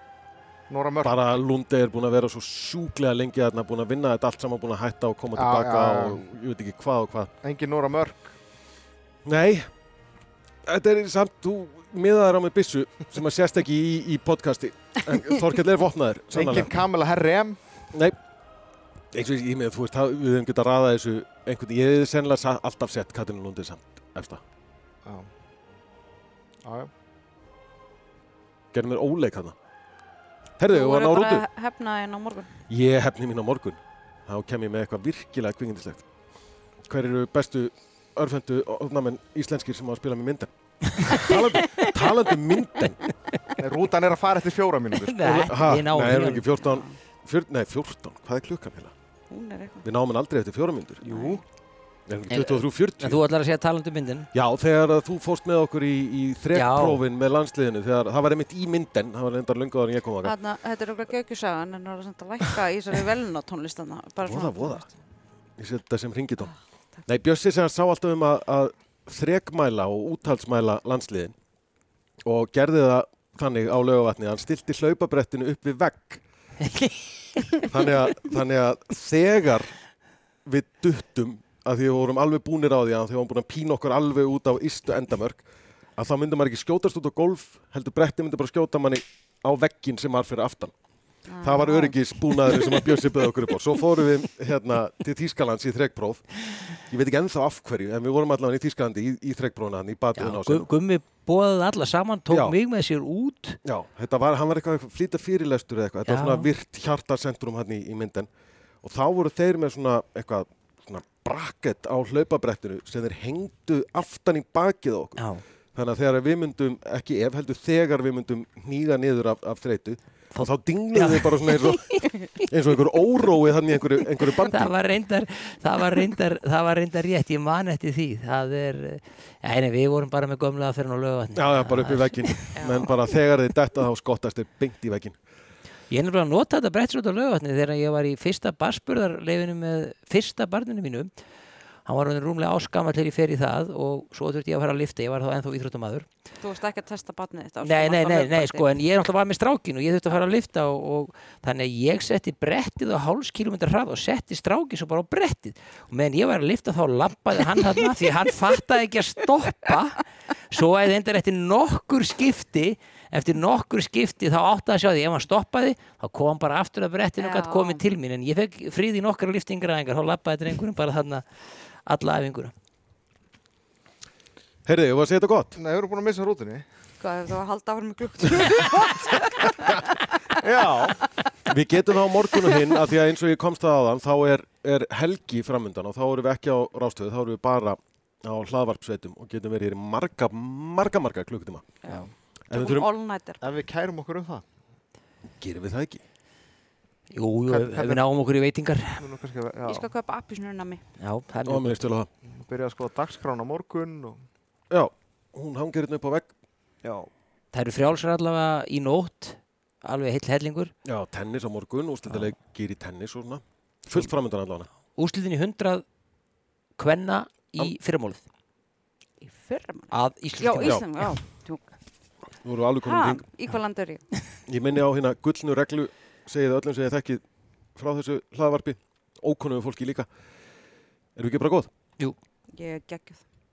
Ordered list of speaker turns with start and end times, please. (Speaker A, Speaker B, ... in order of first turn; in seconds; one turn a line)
Speaker A: 0.7-1.4
Speaker B: 1.0-7.3
Speaker A: 5.3-6.2
Speaker A: 7.4-8.4
Speaker B: 9.2-9.7
Speaker B: 10.6-16.7
Speaker A: 16.3-17.6
Speaker B: 19.1-24.4
Speaker A: 25.0-25.3
Speaker A: 26.6-26.9
Speaker B: 28.7-29.6
Speaker B: 30.6-31.4
Speaker C: 30.7-32.6
Speaker B: 32.7-36.1
Speaker B: 36.8-43.1
Speaker A: 43.6-45.2
Speaker D: 45.0-46.5
Speaker B: 45.2-48.9
Speaker C: 46.6-47.0
Speaker C: 49.3-49.8
Speaker B: 49.8-51.0
Speaker A: 51.0-51.4
Speaker C: 51.0-51.4
Speaker B: 52.1-53.2
Speaker D: 52.3-54.3
Speaker B: 54.3-60.3
Speaker D: 56.5-57.0
Speaker C: 60.2-64.9
Speaker B: 64.2-64.9
Speaker B: 65.6-71.3
Speaker C: 66.4-67.0
Speaker B: 72.2-76.2
Speaker D: 76.7-77.1
Speaker B: 77.7-79.8
Speaker B: 80.4-85.4
Speaker B: 86.0-90.7
Speaker C: 91.3-92.0
Speaker B: 91.3-100.7
Speaker D: 100.2-103.6
Speaker B: 102.3-102.5
Speaker B: 103.6-108.3
Speaker D: 106.0-106.5
Speaker B: 108.8-115.2
Speaker D: 115.2-115.4
Speaker B: 115.7-124.7
Speaker D: 120.3-122.0
Speaker D: 124.5-132.5
Speaker B: 131.3-135.2
Speaker C: 132.5-133.0
Speaker D: 135.9-141.1
Speaker D: 141.8-146.1
Speaker C: 146.4-148.7
Speaker D: 147.6-172.5
Speaker C: 167.2-167.8
Speaker B: 174.6-175.6
Speaker A: 175.5-176.7
Speaker C: 177.0-180.2
Speaker A: 180.4-181.0
Speaker B: 181.5-191.7
Speaker C: 182.4-182.7
Speaker C: 191.8-193.4
Speaker D: 191.9-192.1
Speaker B: 192.5-192.9
Speaker A: 193.4-194.4
Speaker B: 195.3-196.0
Speaker D: 197.1-199.0
Speaker A: 197.5-198.0
Speaker A: 199.0-199.9
Speaker C: 199.6-200.8
Speaker D: 201.0-201.8
Speaker B: 201.4-202.1
Speaker A: 202.2-204.2
Speaker B: 204.7-206.3
Speaker A: 206.8-207.1
Speaker D: 207.5-210.7
Speaker B: 210.8-214.7
Speaker D: 214.9-215.8
Speaker D: 216.8-218.2
Speaker C: 219.2-221.7
Speaker D: 219.9-221.1
Speaker B: 220.6-220.9
Speaker B: 222.4-223.2
Speaker C: 222.8-224.1
Speaker B: 224.5-227.2
Speaker B: 227.7-230.1
Speaker B: 231.2-231.7
Speaker C: 232.5-233.2